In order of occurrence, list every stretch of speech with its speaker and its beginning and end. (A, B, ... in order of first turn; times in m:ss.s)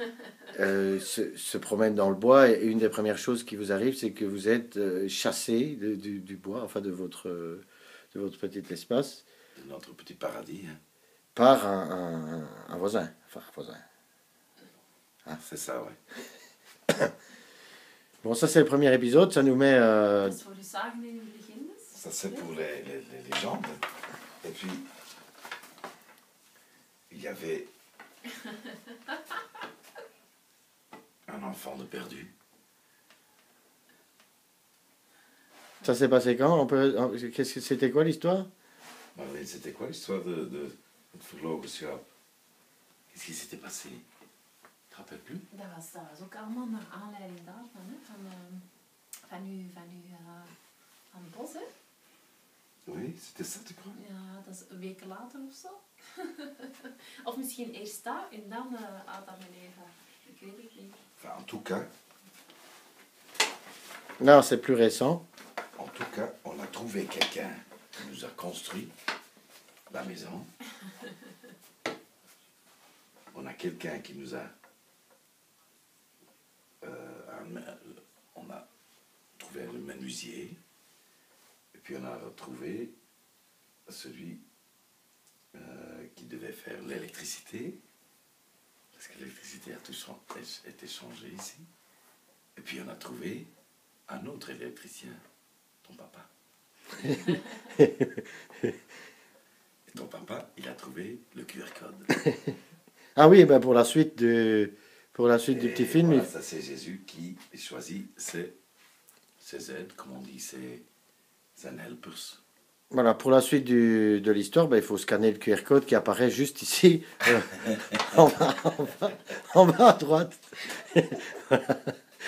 0:00.5-0:09.2 A
0:09.6-0:10.8 B
0:11.4-0:13.8 A
0:15.4-0:16.0 B
0:18.2-0:20.4 A
0:20.2-0:22.5 C
0:22.0-0:23.8 B
0:24.4-0:24.9 B
0:27.1-0:27.7 B
0:31.3-0:32.3 B
0:35.8-0:38.5 A
0:39.1-0:42.0 B
0:43.1-0:44.0 B
0:44.9-0:45.4 B
0:45.5-0:48.6 C
0:49.2-0:50.5 C
0:51.1-0:51.7 C
0:52.8-0:54.0 B
0:53.9-1:01.0 C
1:01.2-1:01.9 B
1:04.2-1:05.2 A
1:05.8-1:08.9 B
1:09.9-1:10.5 B
1:13.3-1:14.5 B
1:16.8-1:18.7 B
1:19.4-1:20.6 B
1:21.7-1:22.9 B
1:23.9-1:24.4 B
1:25.5-1:27.8 B
1:28.9-1:31.7 B
1:32.6-1:33.5 B
1:34.1-1:35.2 B
1:35.8-1:36.3 B
1:37.0-1:38.2 A
1:39.9-1:42.2 B
1:43.2-1:46.3 A
1:45.5-1:48.5 B
1:49.4-1:50.8 B
1:51.6-1:52.4 B
1:52.9-2:01.9 A